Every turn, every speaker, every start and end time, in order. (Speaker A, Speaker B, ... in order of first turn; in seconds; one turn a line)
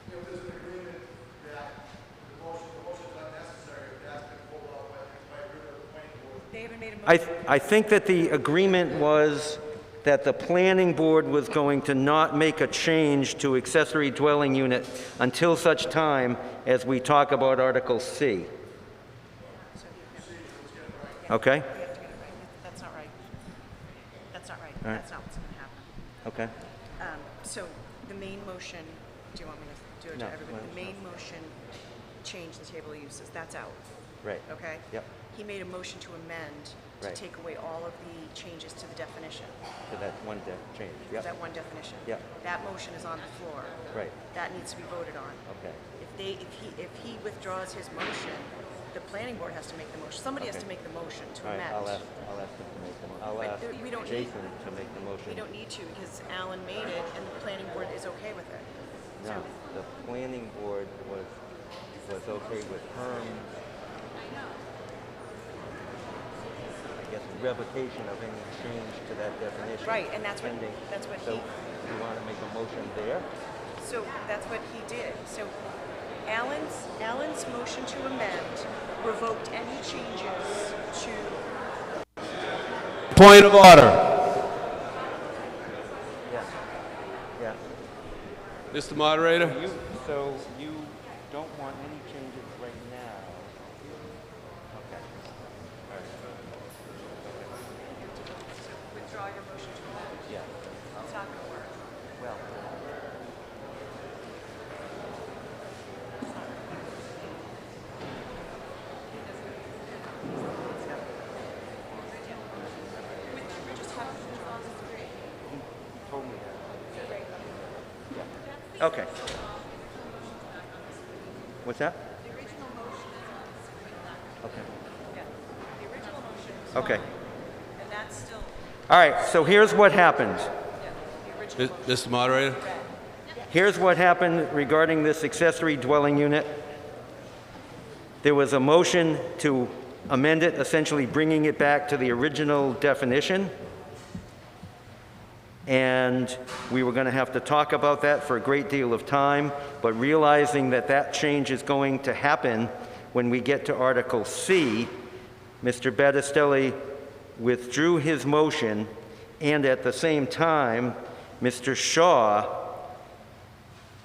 Speaker A: 6.5-7.1
Speaker B: 7.0-18.5
Speaker A: 19.7-20.5
Speaker B: 21.3-21.7
Speaker A: 21.7-23.1
Speaker A: 24.3-25.9
Speaker B: 26.2-26.5
Speaker A: 27.0-31.6
Speaker B: 30.1-31.0
Speaker A: 32.2-33.8
Speaker B: 34.2-35.1
Speaker A: 34.5-39.6
Speaker B: 39.9-41.3
Speaker A: 41.1-45.4
Speaker B: 45.5-45.8
Speaker A: 46.0-52.0
Speaker B: 51.4-55.4
Speaker A: 53.4-54.3
Speaker A: 55.3-58.7
Speaker B: 59.2-61.4
Speaker B: 62.0-63.6
Speaker B: 66.9-73.3
Speaker A: 69.8-71.5
Speaker A: 73.8-75.5
Speaker A: 76.2-81.4
Speaker C: 83.1-84.0
Speaker B: 86.2-86.5
Speaker C: 88.7-89.5
Speaker B: 89.4-93.5
Speaker B: 94.7-95.1
Speaker B: 95.9-96.1
Speaker B: 97.2-97.5
Speaker A: 98.0-100.3
Speaker A: 101.0-101.8
Speaker B: 102.2-102.6
Speaker B: 110.8-111.2
Speaker B: 111.8-113.6
Speaker A: 113.3-115.1
Speaker B: 115.5-117.1
Speaker B: 118.1-119.2
Speaker B: 121.6-122.0
Speaker A: 122.2-124.3
Speaker A: 125.1-127.1
Speaker B: 126.7-127.0
Speaker A: 127.8-128.6
Speaker B: 128.9-130.5
Speaker A: 130.8-132.9
Speaker C: 131.6-132.6
Speaker B: 133.5-136.6
Speaker B: 138.2-143.5
Speaker B: 145.7-154.9
Speaker B: 155.6-156.8
Speaker B: 157.3-162.8